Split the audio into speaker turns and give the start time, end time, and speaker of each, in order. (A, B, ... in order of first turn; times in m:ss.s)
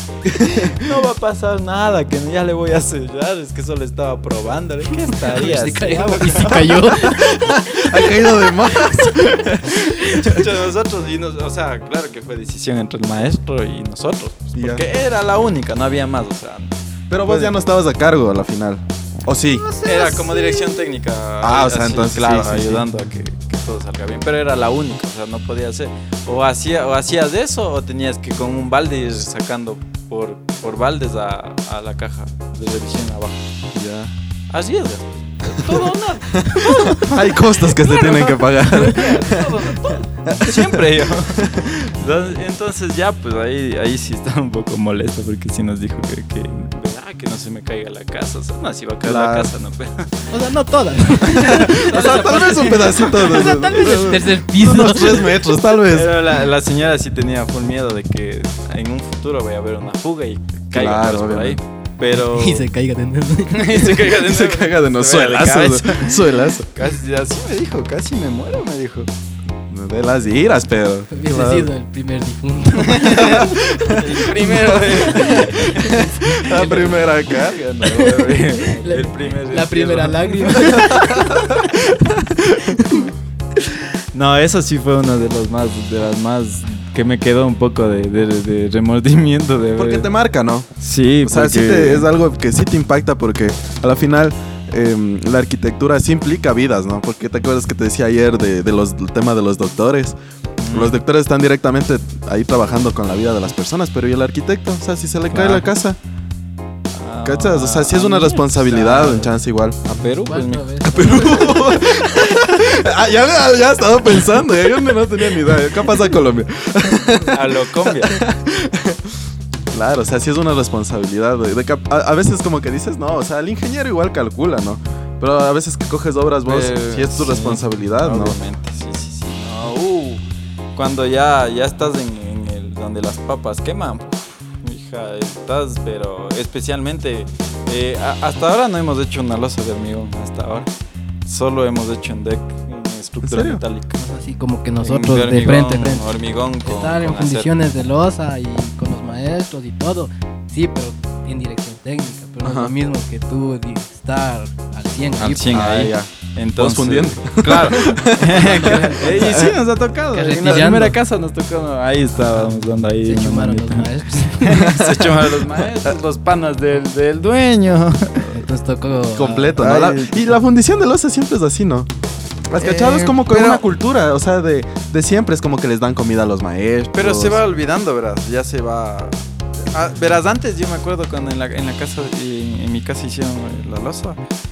0:00.2-0:00.8 A
0:00.4-0:08.3 B
0:05.1-0:07.6 C
0:07.0-0:10.5 A
0:08.8-0:17.5 B
0:14.5-0:14.9 A
0:17.1-0:19.7 A
0:19.6-0:20.8 C
0:19.8-0:33.4 B
0:21.4-0:22.8 A
0:33.7-0:34.1 A
0:34.5-0:50.3 B
0:35.5-0:41.8 A
0:49.0-0:49.5 A
0:50.3-0:55.4 C
0:51.2-0:56.1 A
0:51.5-0:53.3 B
0:55.8-1:02.7 B
1:00.7-1:01.6 A
1:02.1-1:04.0 C
1:03.5-1:09.1 B
1:04.0-1:06.7 A
1:09.7-1:11.7 A
1:11.1-1:17.0 C
1:12.8-1:16.9 B
1:13.0-1:18.3 A
1:17.8-1:21.6 C
1:17.8-1:20.9 B
1:20.6-1:23.0 A
1:22.6-1:23.1 C
1:23.6-1:30.1 B
1:29.8-1:30.7 A
1:30.8-1:32.1 B
1:31.2-1:40.1 A
1:40.6-1:41.0 B
1:40.7-1:46.0 A
1:45.3-1:45.7 B
1:47.0-1:49.3 B
1:47.2-1:50.0 A
1:49.9-1:51.5 B
1:50.2-1:52.0 C
1:50.8-1:59.2 A
1:57.2-1:58.2 B
1:59.7-2:08.4 A
2:06.4-2:10.2 B
2:10.7-2:20.7 B
2:21.2-2:24.0 B
2:23.2-2:23.6 A
2:24.0-2:26.0 C
2:24.8-2:27.5 B
2:26.6-2:35.5 C
2:32.4-2:32.7 A
2:35.2-2:48.4 B
2:35.5-2:39.6 A
2:38.2-2:39.5 C
2:40.1-2:41.0 C
2:42.2-2:44.8 C
2:44.6-2:45.7 A
2:48.2-2:49.7 C
2:49.1-2:51.9 A
2:49.6-2:50.3 B
2:52.5-2:57.4 A
2:52.6-2:53.6 B
2:56.9-2:59.2 B
2:59.7-3:04.2 B